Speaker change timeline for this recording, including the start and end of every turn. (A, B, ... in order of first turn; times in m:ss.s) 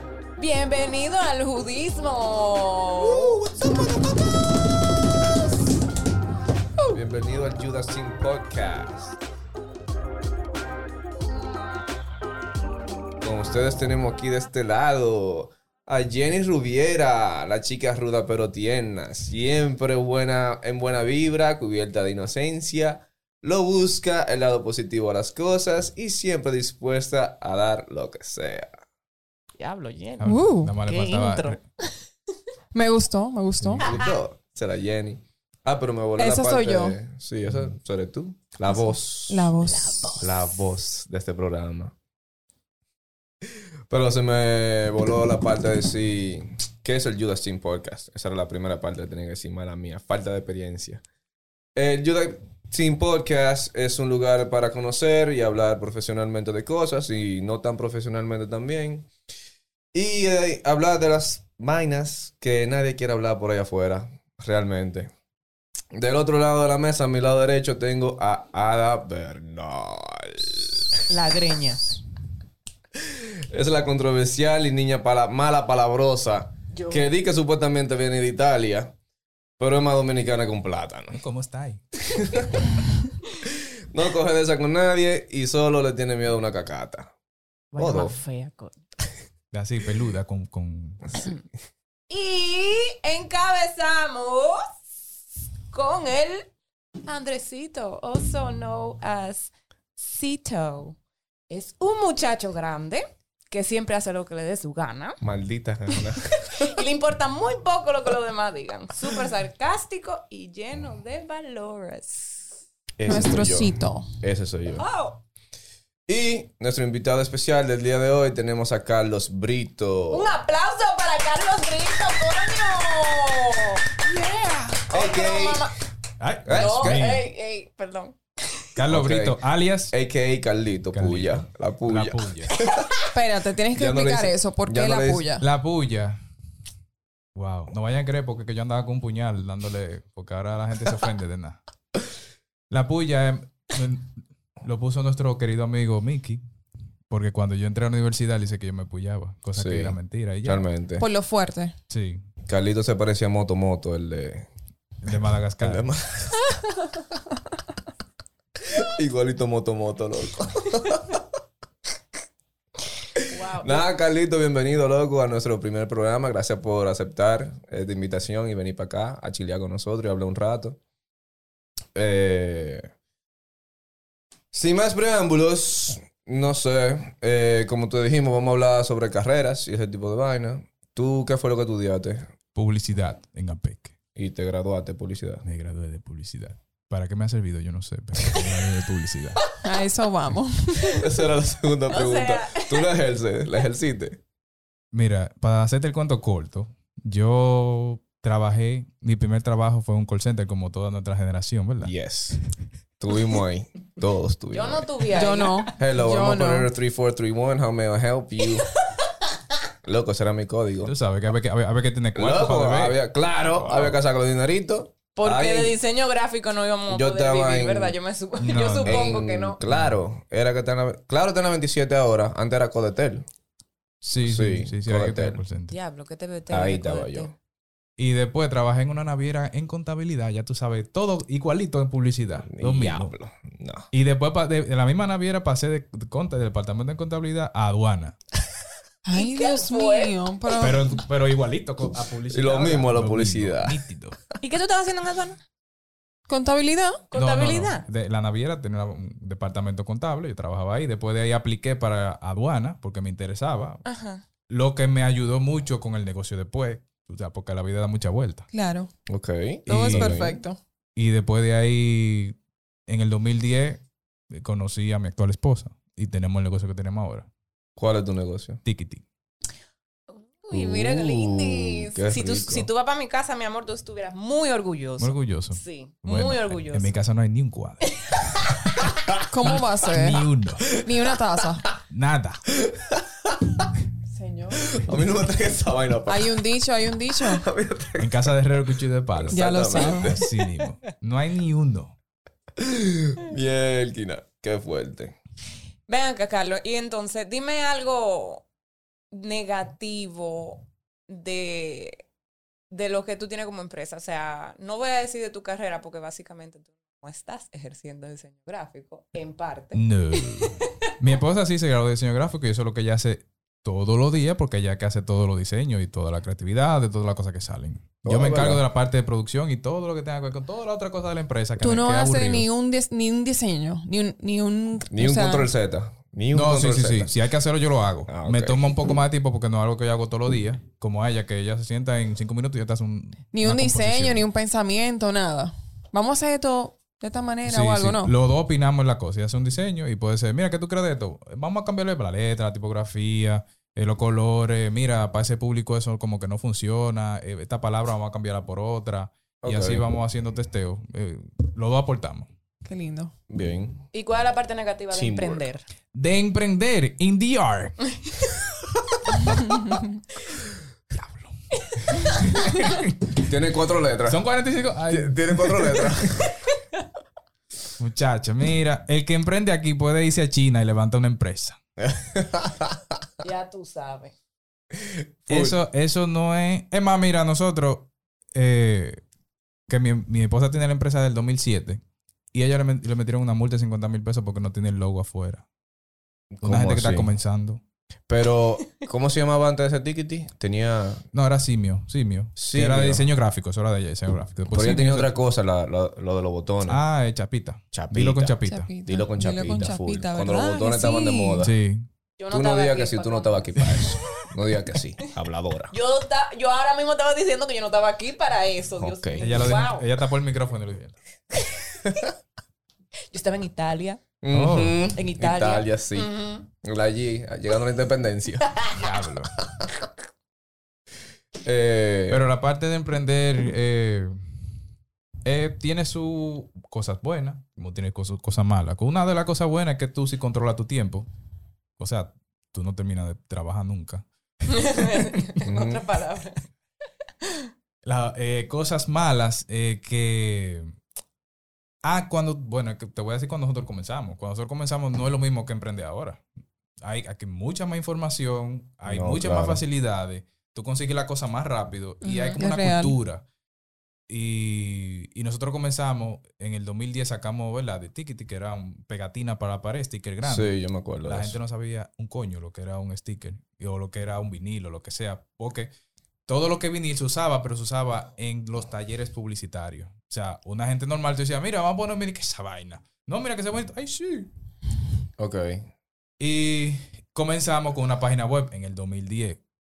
0:00.4-0:03.4 A
0:03.0-0:04.6 B
0:06.9-0:09.2 B
0:13.2-0:28.7 B
0:29.6-0:30.2 A
0:30.2-0:31.6 C
0:30.2-0:30.8 D
0:30.8-0:31.6 A
0:32.7-0:33.8 D
0:33.8-0:39.5 B
0:36.2-0:37.0 D
0:39.3-0:40.1 D
0:39.7-0:40.4 A
0:40.2-0:41.9 B
0:43.4-0:51.0 B
0:51.7-0:59.1 B
0:59.9-1:05.1 B
1:05.9-1:11.2 B
1:11.1-1:12.0 A
1:12.9-1:18.9 B
1:16.7-1:17.0 A
1:19.6-1:21.2 B
1:21.1-1:21.8 C
1:22.0-1:22.6 B
1:23.4-1:27.1 B
1:27.7-1:28.7 A
1:27.7-1:28.2 B
1:29.5-1:31.2 C
1:32.1-1:34.8 A
1:35.7-1:36.5 A
1:37.0-1:41.0 A
1:41.5-1:45.2 A
1:45.2-1:46.7 B
1:46.4-1:52.6 A
1:53.0-1:54.8 B
1:53.1-1:54.1 D
1:54.8-1:55.2 A
1:56.1-2:00.3 B
2:00.1-2:04.0 A
2:04.1-2:04.7 C
2:04.7-2:05.8 A
2:04.9-2:05.7 B
2:06.2-2:07.2 C
2:06.4-2:07.1 B
2:06.5-2:08.6 A
2:08.8-2:09.9 C
2:08.9-2:09.4 B
2:09.9-2:12.9 B
2:10.9-2:12.5 C
2:13.1-2:15.4 D
2:13.7-2:15.3 B
2:15.4-2:16.2 C
2:17.4-2:21.6 C
2:22.7-2:26.4 C
2:27.1-2:30.6 C
2:29.6-2:31.0 B
2:31.0-2:31.7 D
2:31.9-2:32.2 C
2:32.5-2:34.4 B
2:35.0-2:35.9 C
2:35.6-2:36.5 B
2:38.6-2:41.2 B
2:43.1-2:50.8 B
2:43.3-2:43.8 A
2:51.9-2:52.9 B
2:54.5-3:02.3 B
3:02.5-3:03.9 C
3:04.1-3:05.4 B
3:05.4-3:09.4 C
3:09.6-3:10.9 D
3:10.8-3:14.2 B
3:11.9-3:12.9 A
3:14.9-3:21.9 C
3:21.8-3:22.4 B
3:23.0-3:24.9 B
3:24.5-3:25.7 A
3:25.1-3:26.7 D
3:25.8-3:28.7 B
3:29.8-3:30.9 B
3:30.8-3:34.0 C
3:32.1-3:35.8 B
3:35.2-3:39.6 A
3:36.9-3:38.0 B
3:38.4-3:39.2 C
3:38.8-3:43.2 B
3:44.0-3:45.7 C
3:44.2-3:45.4 B
3:45.7-3:47.3 A
3:46.5-3:47.3 B
3:48.0-3:53.1 C
3:52.5-3:53.9 B
3:53.9-3:58.2 C
3:59.0-4:00.8 D
3:59.1-4:00.2 A
4:00.5-4:04.2 C
4:02.3-4:03.8 B
4:04.4-4:05.4 A
4:06.3-4:07.0 D
4:07.1-4:07.8 A
4:07.1-4:13.8 C
4:13.8-4:14.2 A
4:14.5-4:18.5 C
4:18.5-4:18.9 D
4:19.1-4:20.4 B
4:19.7-4:20.3 C
4:19.7-4:20.6 D
4:21.0-4:22.4 C
4:22.9-4:23.8 C
4:24.3-4:27.3 C
4:27.8-4:28.6 B
4:28.6-4:29.0 C
4:30.4-4:36.9 A
4:30.5-4:32.7 B
4:35.0-4:38.0 C
4:39.3-4:40.2 D
4:39.4-4:40.7 C
4:40.8-4:41.6 D
4:41.9-4:42.4 C
4:42.6-4:43.6 B
4:44.1-4:44.8 D
4:44.7-4:46.4 B
4:46.1-4:47.4 D
4:47.2-4:48.4 B
4:48.0-4:51.9 C
4:49.1-4:50.2 B
4:49.3-4:50.2 D
4:52.6-4:55.1 B
4:55.9-4:58.4 A
4:59.1-5:02.0 A
5:02.7-5:10.5 A
5:09.7-5:22.5 C
5:18.0-5:18.6 B
5:21.6-5:25.5 D
5:24.9-5:27.1 B
5:26.3-5:34.2 C
5:28.1-5:28.7 B
5:33.3-5:38.1 D
5:37.4-5:52.3 C
5:49.4-5:49.9 B
5:52.6-5:53.1 D
5:53.3-5:53.8 B
5:53.9-5:55.6 A
5:54.9-5:55.4 B
5:55.9-5:57.9 C
6:00.9-6:03.1 C
6:03.2-6:04.2 B
6:04.1-6:05.9 C
6:04.9-6:06.3 B
6:07.8-6:11.6 C
6:11.8-6:12.8 B
6:13.2-6:14.1 A
6:14.8-6:15.6 B
6:15.3-6:19.0 C
6:19.7-6:21.8 C
6:22.3-6:25.4 C
6:26.3-6:27.1 B
6:26.4-6:27.6 C
6:28.1-6:31.0 B
6:31.1-6:35.1 C
6:32.4-6:33.1 B
6:34.5-6:36.8 B
6:36.6-6:38.7 C
6:37.7-6:41.5 B
6:38.4-6:41.4 D
6:41.4-6:41.9 C
6:42.2-6:43.6 A
6:42.3-6:45.7 B
6:45.7-6:49.8 A
6:48.8-6:49.6 B
6:49.2-6:50.9 C
6:53.1-6:54.0 A
6:54.2-6:56.1 B
6:54.3-6:54.8 C
6:54.9-6:56.5 A
6:56.6-6:58.4 B
6:58.7-6:59.3 C
7:01.4-7:02.2 B
7:02.1-7:04.1 C
7:05.2-7:11.1 C
7:11.8-7:14.0 C
7:14.5-7:16.4 A
7:15.4-7:15.8 B
7:17.8-7:20.7 C
7:21.8-7:26.2 C
7:26.8-7:33.2 C
7:28.9-7:29.6 B
7:32.0-7:33.0 D
7:34.1-7:40.5 C
7:40.2-7:41.4 B
7:41.0-7:45.7 C
7:46.3-7:54.3 C
7:55.2-7:55.7 B
7:56.2-7:59.4 C